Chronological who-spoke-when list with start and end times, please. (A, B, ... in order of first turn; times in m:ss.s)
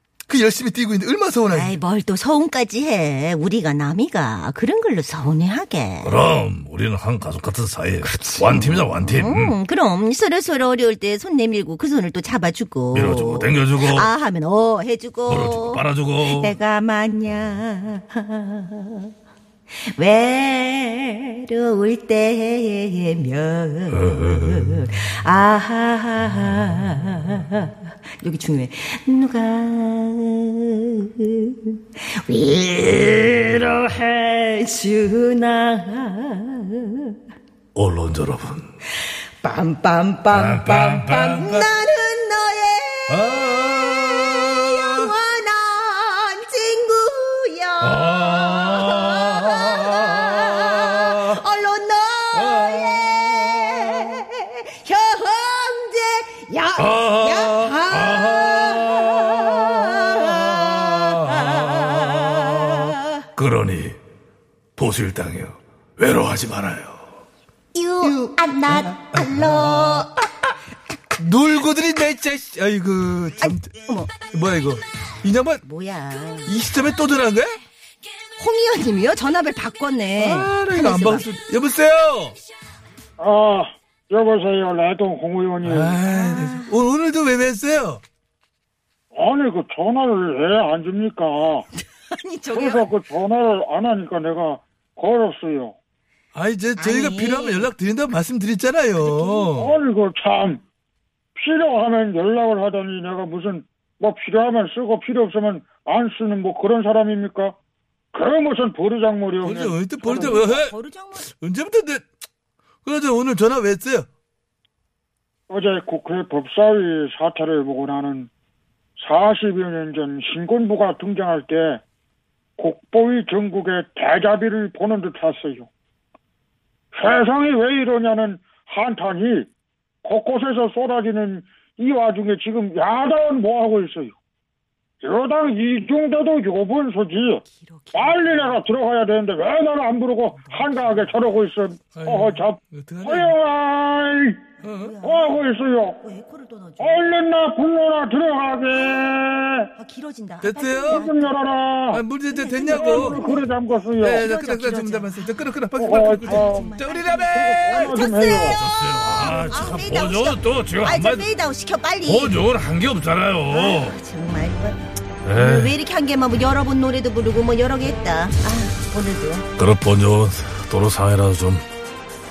0:00.3-0:01.8 A
0:01.5-0:06.2 B
0:06.0-0:09.6 C
0:08.0-0:19.1 B
0:12.9-0:14.1 C
0:15.3-0:16.6 C
0:19.8-0:37.2 B
0:23.9-0:24.7 C
0:37.8-0:38.7 C
0:39.4-1:03.2 B
0:40.3-0:41.7 C
0:43.1-0:45.1 C
0:47.8-0:50.6 C
0:52.5-0:52.8 C
0:56.8-0:59.0 C
1:03.4-1:04.0 C
1:04.8-1:07.1 C
1:07.7-1:10.2 B
1:08.7-1:10.1 A
1:11.2-1:13.7 A
1:13.4-1:14.1 B
1:14.3-1:15.6 A
1:15.6-1:16.6 B
1:16.5-1:17.6 A
1:18.4-1:21.3 B
1:20.2-1:22.4 A
1:23.2-1:26.0 D
1:25.6-1:28.0 A
1:26.1-1:26.8 B
1:29.1-1:31.6 D
1:32.1-1:32.9 B
1:32.5-1:35.7 D
1:36.3-1:39.8 A
1:36.8-1:37.7 B
1:39.0-1:39.5 B
1:39.6-1:40.6 D
1:41.4-1:47.6 D
1:48.1-1:50.4 D
1:49.4-1:50.8 A
1:50.0-1:51.3 B
1:51.4-1:52.0 A
1:52.8-1:54.1 A
1:55.5-1:58.3 D
1:59.0-2:01.8 D
2:02.6-2:05.7 D
2:07.0-2:09.5 D
2:10.0-2:14.2 D
2:15.0-2:17.4 D
2:17.4-2:18.7 B
2:17.9-2:24.4 D
2:20.4-2:21.2 B
2:21.9-2:23.4 A
2:24.6-2:27.0 B
2:24.6-2:24.9 A
2:25.0-2:26.0 D
2:26.8-2:29.7 D
2:28.7-2:29.1 B
2:29.8-2:31.4 B
2:30.4-2:31.1 A
2:30.9-2:32.0 D
2:31.9-2:33.2 A
2:32.3-2:33.5 B
2:32.7-2:34.3 D
2:34.0-2:36.8 A
2:34.2-2:42.4 B
2:35.8-2:36.8 D
2:36.8-2:41.3 C
2:37.3-2:38.6 D
2:42.0-2:44.0 C
2:43.5-2:44.8 B
2:45.2-2:45.8 C
2:45.3-2:49.5 B
2:49.6-2:51.6 C